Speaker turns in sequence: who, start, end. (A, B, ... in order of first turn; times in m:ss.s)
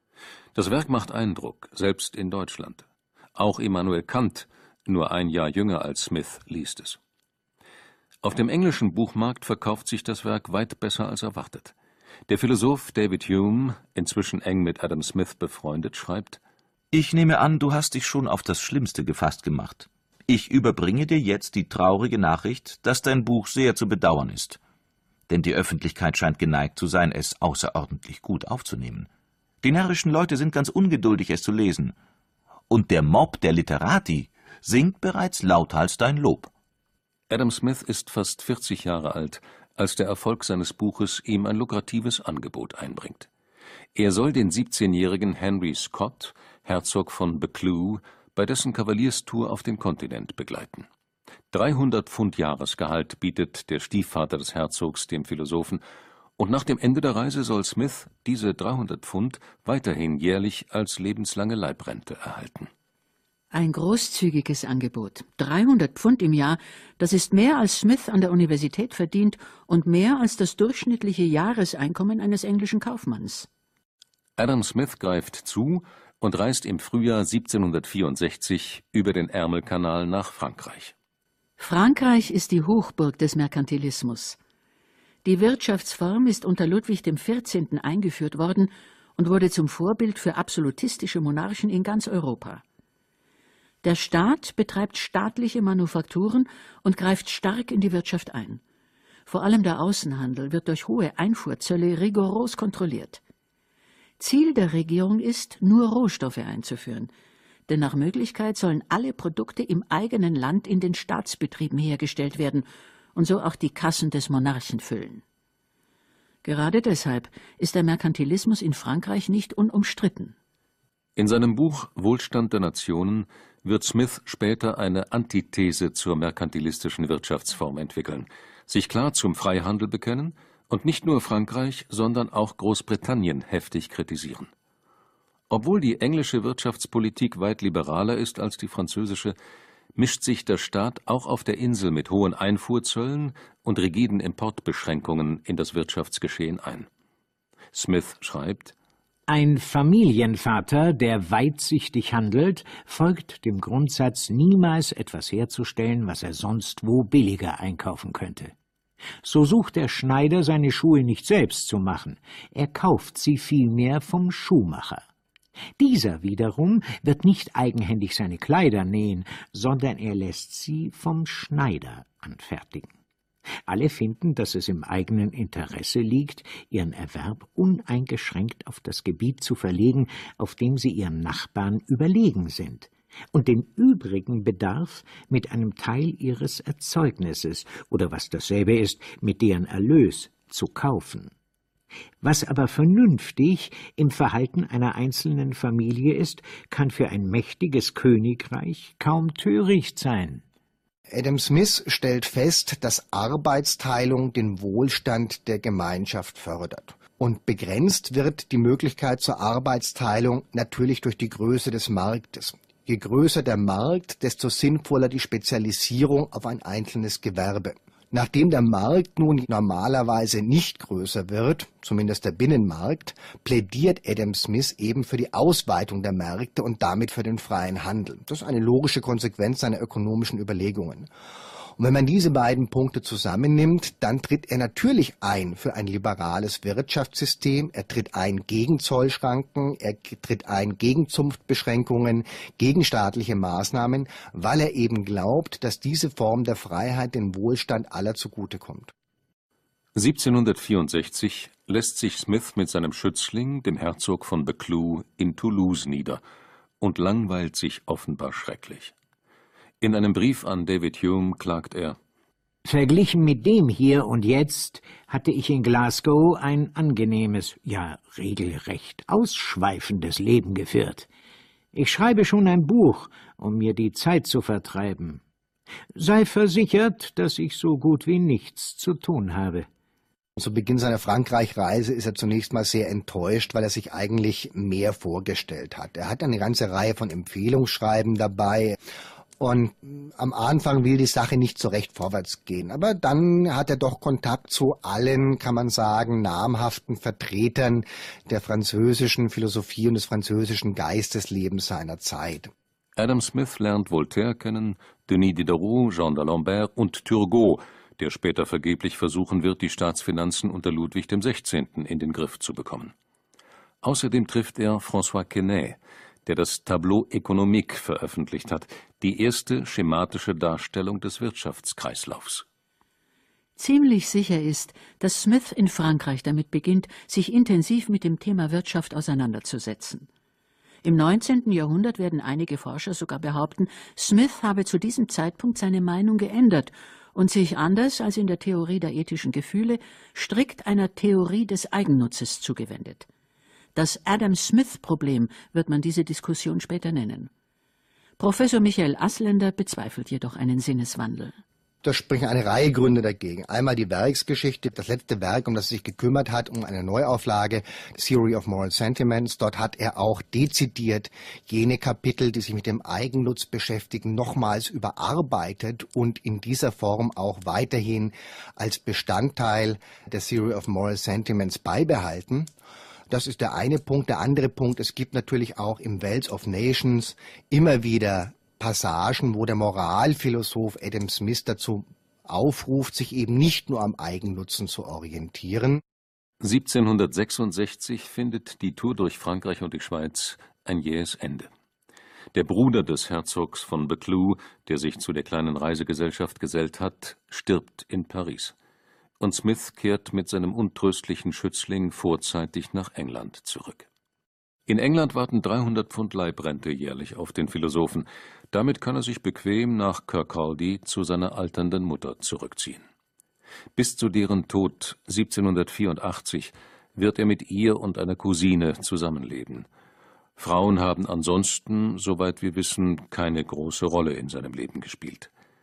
0:00.5-0:02.8 A
0:03.4-0:07.0 A
0:08.2-0:11.7 A
0:12.3-0:16.4 A
0:16.9-0:24.6 B
0:25.3-0:29.1 B
0:29.6-0:31.9 B
0:32.7-0:36.5 B
0:37.3-0:43.3 A
0:43.9-0:50.9 A
0:51.5-0:55.8 A
0:56.4-1:02.7 A
1:03.5-1:13.5 C
1:14.4-1:20.9 A
1:21.6-1:24.4 C
1:25.2-1:32.6 C
1:33.8-1:38.6 C
1:39.3-1:43.2 C
1:44.2-1:47.1 C
1:47.7-1:55.2 C
1:56.4-2:00.3 C
2:01.2-2:14.5 A
2:15.5-2:19.3 A
2:20.0-2:26.9 A
2:27.7-2:28.7 A
2:29.3-2:38.5 D
2:39.2-2:45.0 D
2:45.8-2:52.9 D
2:53.7-3:11.3 D
3:12.2-3:20.4 D
3:21.1-3:51.1 E
3:51.8-4:08.9 E
4:09.9-4:16.2 A
4:16.8-4:18.9 A
4:19.8-4:22.0 A
4:22.6-4:31.1 D
4:31.7-4:35.2 D
4:35.9-4:39.7 D
4:40.4-4:48.8 E
4:49.4-5:02.5 E
5:03.0-5:12.9 A
5:13.8-5:22.4 A
5:23.6-5:30.1 C
5:30.8-5:43.0 C
5:43.7-5:47.3 C
5:48.2-5:51.4 C
5:51.8-6:12.5 E
6:13.1-6:25.8 E
6:26.4-6:31.5 A
6:32.3-6:38.5 A
6:39.2-6:43.9 A
6:44.7-6:52.8 A
6:53.8-6:59.7 A
7:00.4-7:05.3 A